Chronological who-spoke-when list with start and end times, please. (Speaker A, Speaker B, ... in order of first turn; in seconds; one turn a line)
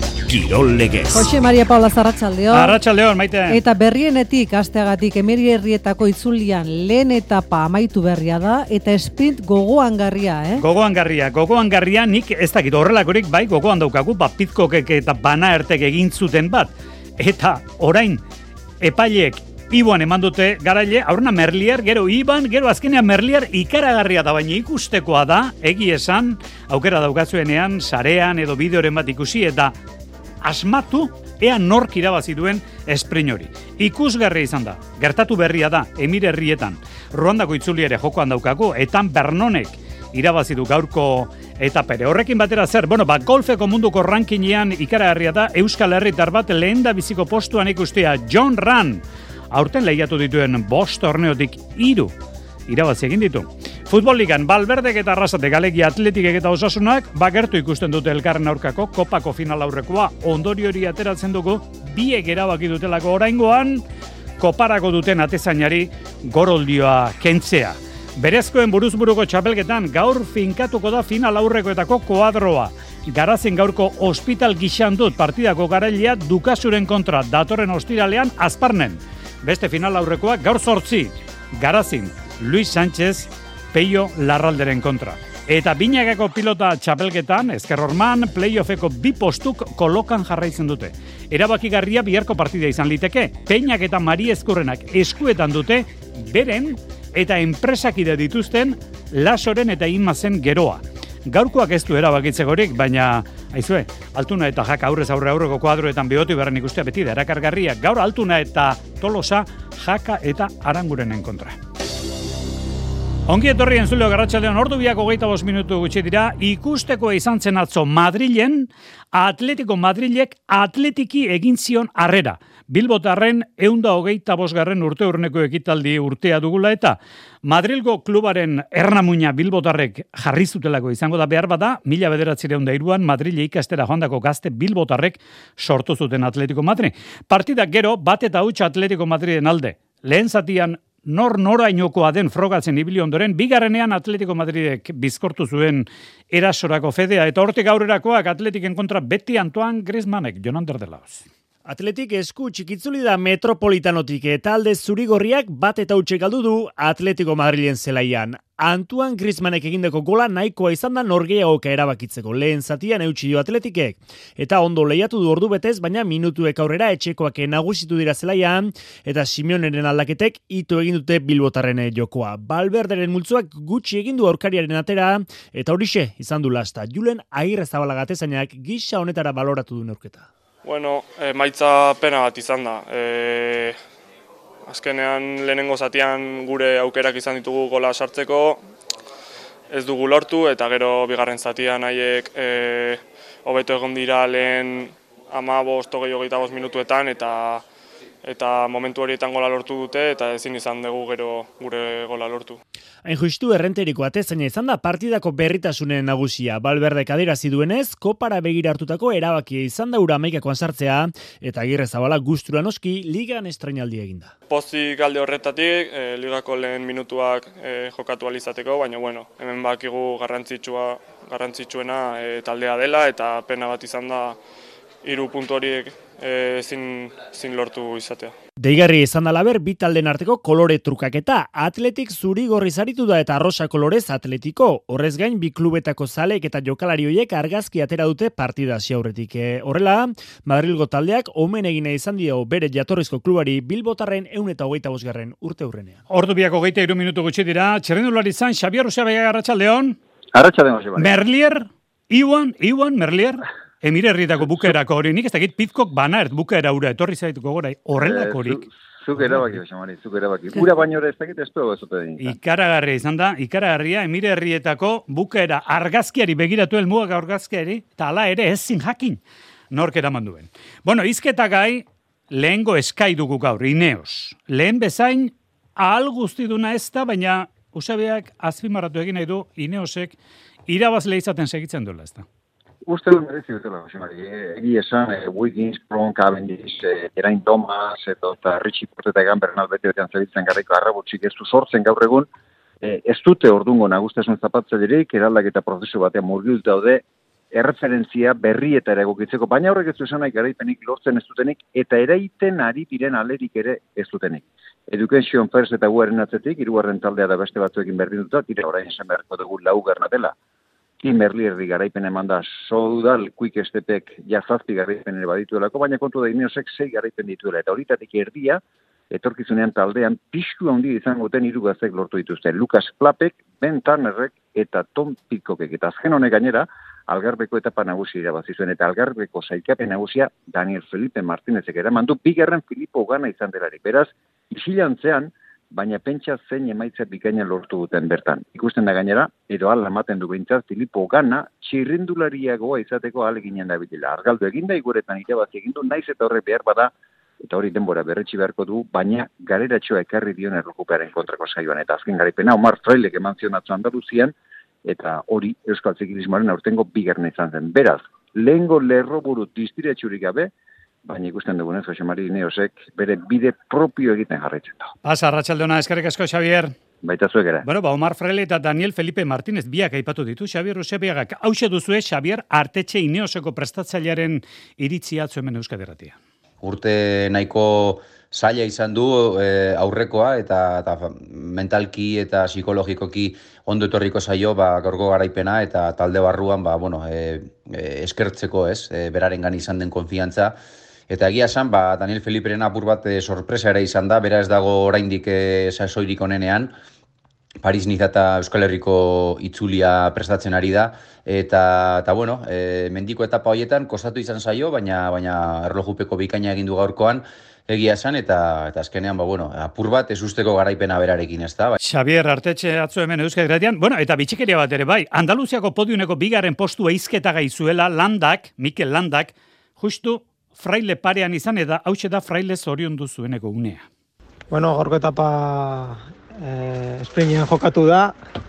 Speaker A: 0.3-2.8
Speaker B: 2.5-3.6
Speaker A: 3.5-10.6
Speaker B: 10.6-18.2
Speaker B: 18.8-29.8
Speaker B: 30.4-52.1
Speaker B: 52.7-63.8
Speaker B: 64.4-111.6
Speaker B: 113.3-151.2
Speaker C: 151.7-180.3
Speaker D: 180.6-183.8
Speaker D: 184.7-188.6
Speaker D: 189.7-197.7
Speaker D: 198.2-202.6
Speaker C: 203.1-214.3
Speaker D: 214.5-224.4
Speaker D: 225.0-228.3
Speaker C: 228.6-246.0
Speaker B: 246.1-250.0
Speaker E: 250.3-251.2
Speaker B: 251.0-258.6
Speaker E: 258.0-262.4
Speaker B: 262.2-269.2
Speaker B: 269.7-280.2
Speaker B: 280.7-282.2
Speaker E: 282.9-292.3
Speaker E: 292.8-310.4
Speaker E: 311.0-354.3
Speaker E: 354.9-360.5
Speaker E: 361.1-364.9
Speaker B: 365.0-366.7
Speaker E: 367.0-367.7
Speaker B: 367.6-376.2
Speaker F: 376.6-390.6
Speaker F: 391.1-396.7
Speaker F: 397.6-411.8
Speaker B: 411.8-423.9
Speaker G: 424.5-428.2